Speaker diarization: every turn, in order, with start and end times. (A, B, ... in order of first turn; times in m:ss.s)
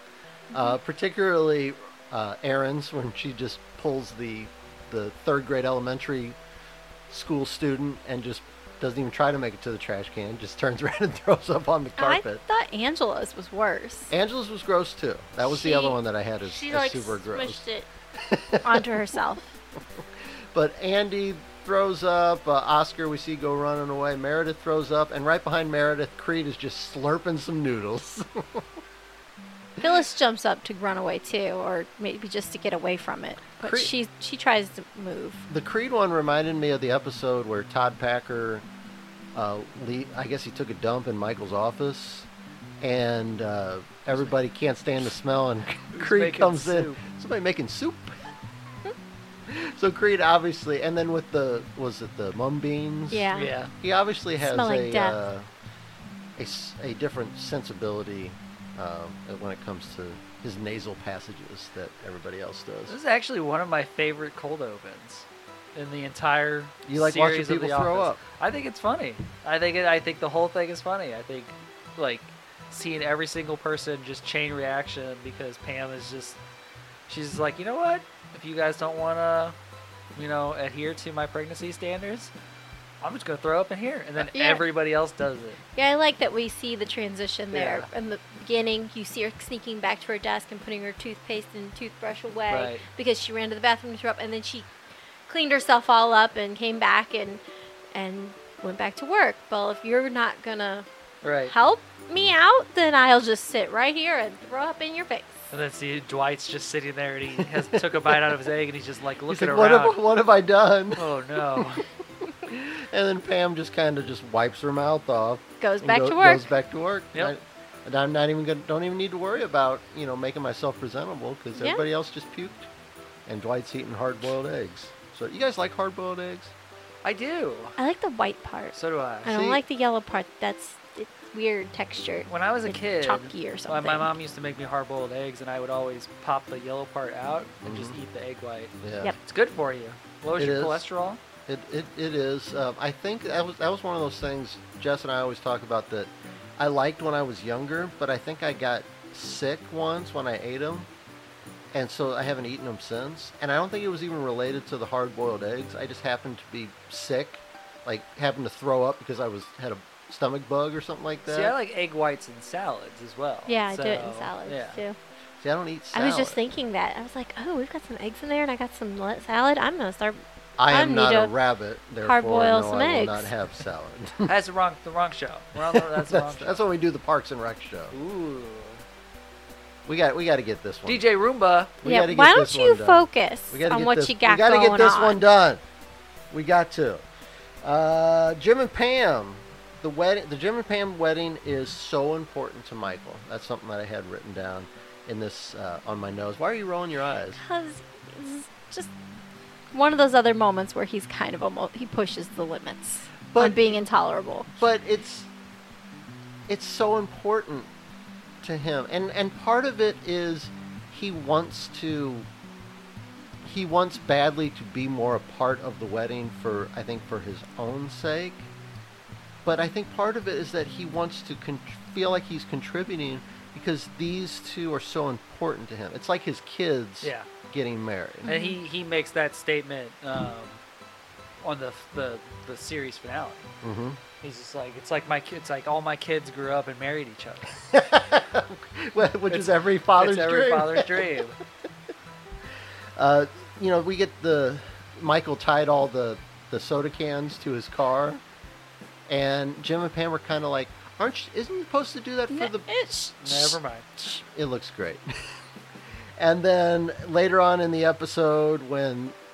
0:00.5-0:06.4 A
0:07.1-0:12.4 A
0:12.0-0:14.1 B
0:14.1-0:17.6 A
0:15.4-0:17.9 B
0:18.2-0:19.1 A
0:18.6-0:19.5 B
0:20.5-0:28.7 A
0:29.8-0:35.4 B
0:33.6-0:33.9 A
0:35.5-0:38.6 A
0:39.4-0:42.3 A
0:42.8-0:48.4 A
0:45.9-0:47.0 C
0:49.5-0:55.5 A
0:53.1-0:53.5 B
0:53.3-0:53.7 C
0:54.4-0:55.2 B
0:56.4-1:03.0 A
1:02.9-1:16.4 C
1:06.8-1:08.2 A
1:17.1-1:19.6 C
1:20.2-1:22.3 C
1:23.0-1:25.6 C
1:24.3-1:24.6 B
1:25.8-1:34.7 B
1:27.5-1:27.9 C
1:32.5-1:32.8 C
1:35.3-1:37.4 B
1:37.9-1:40.9 B
1:41.2-1:41.5 C
1:41.5-1:45.5 B
1:45.5-1:50.0 C
1:47.4-1:48.3 A
1:49.3-2:02.7 A
1:51.0-1:51.9 C
1:55.6-1:56.5 B
2:01.6-2:01.8 B
2:03.3-2:06.5 A
2:07.0-2:07.8 C
2:07.8-2:14.1 B
2:08.8-2:09.4 C
2:09.3-2:09.6 A
2:12.3-2:21.2 C
2:17.6-2:18.0 A
2:18.8-2:19.1 A
2:20.4-2:20.9 A
2:21.5-2:30.9 A
2:31.7-2:41.5 A
2:41.3-2:44.8 C
2:43.5-2:45.0 B
2:45.4-2:46.4 A
2:45.9-2:51.3 B
2:50.6-2:54.3 A
2:52.0-2:53.3 B
2:54.3-2:56.6 C
2:55.7-2:58.0 A
2:57.9-2:58.8 C
2:59.9-3:01.0 A
3:00.9-3:01.8 C
3:01.8-3:05.6 A
3:01.8-3:05.2 B
3:06.3-3:07.1 A
3:07.6-3:17.4 A
3:17.4-3:18.9 B
3:19.7-3:24.5 B
3:23.3-3:23.8 A
3:24.6-3:25.3 A
3:26.5-3:27.7 A
3:28.4-3:32.3 A
3:33.4-3:38.5 A
3:39.4-3:48.3 A
3:47.0-3:47.3 C
3:48.2-3:48.6 B
3:48.2-3:50.6 C
3:51.4-3:53.5 C
3:53.6-3:54.0 A
3:54.2-3:57.6 C
3:57.7-4:01.3 A
3:59.3-4:01.4 C
4:03.0-4:08.2 A
4:09.1-4:12.7 A
4:12.3-4:13.6 B
4:13.2-4:13.9 C
4:14.0-4:15.1 A
4:16.2-4:19.2 A